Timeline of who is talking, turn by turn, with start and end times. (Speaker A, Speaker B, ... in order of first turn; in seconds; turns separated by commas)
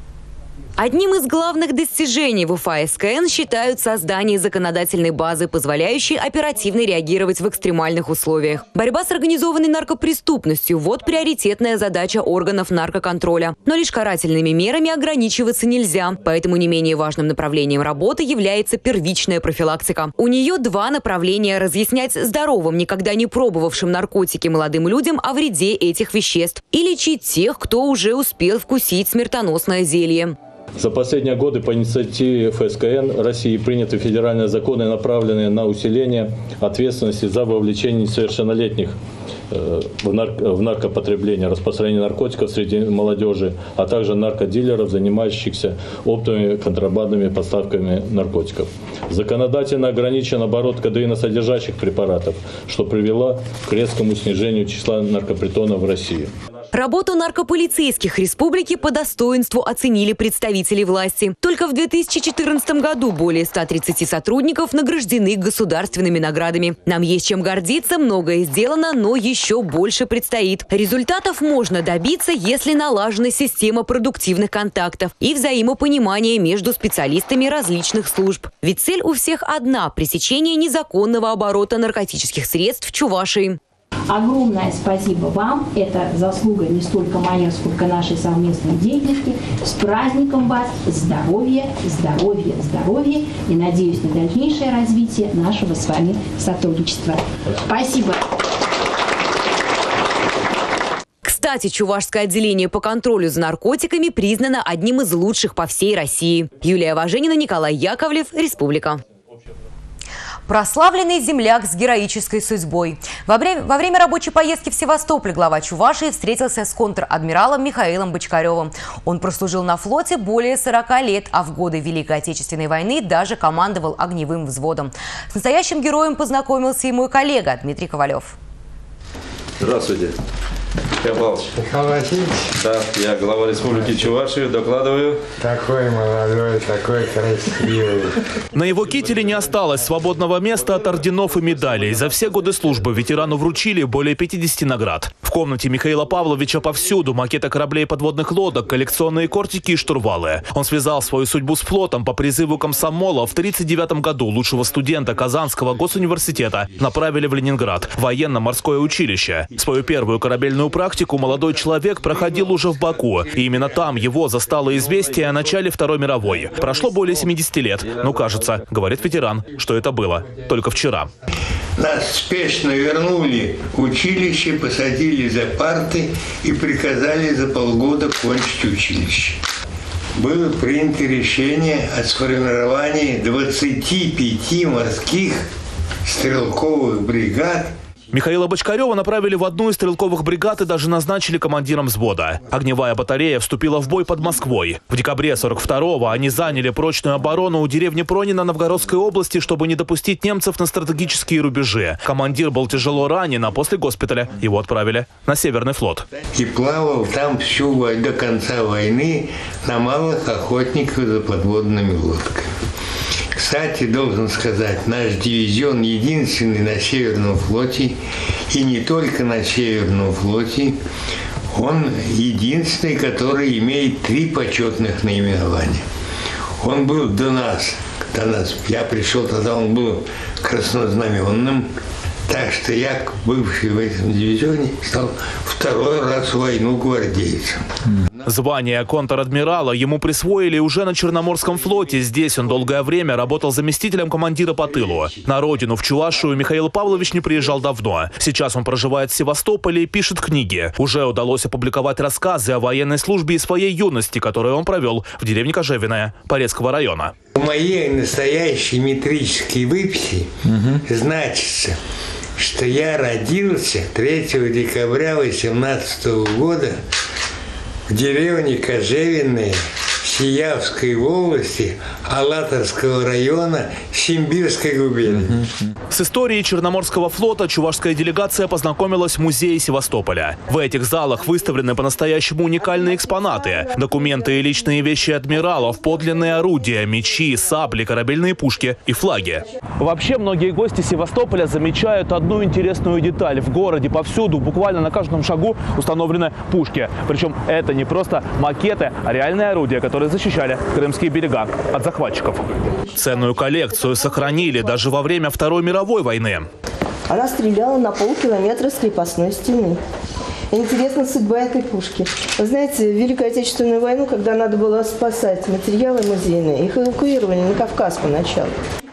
Speaker A: 0.8-30.4, Speaker B: 30.8-39.0, Speaker B: 39.5-56.3, Speaker A: 56.7-83.6, Speaker C: 84.2-97.2, Speaker C: 97.7-98.2, Speaker A: 101.2-109.0, Speaker A: 110.5-128.3, Speaker D: 129.6-130.2, Speaker D: 131.0-131.6, Speaker D: 132.6-135.2, Speaker E: 135.5-137.5, Speaker F: 138.5-171.1, Speaker E: 171.8-179.4, Speaker E: 180.2-185.5, Speaker E: 186.1-187.7, Speaker F: 188.1-206.1, Speaker E: 206.3-212.5, Speaker E: 213.4-218.0, Speaker E: 218.5-220.8, Speaker E: 221.5-225.8, Speaker E: 226.6-231.7, Speaker E: 232.3-237.6, Speaker F: 238.2-257.1, Speaker E: 257.4-260.3, Speaker E: 260.8-261.8, Speaker E: 262.4-266.8, Speaker E: 267.9-275.4, Speaker F: 275.9-306.5, Speaker G: 307.1-309.8, Speaker G: 310.5-318.6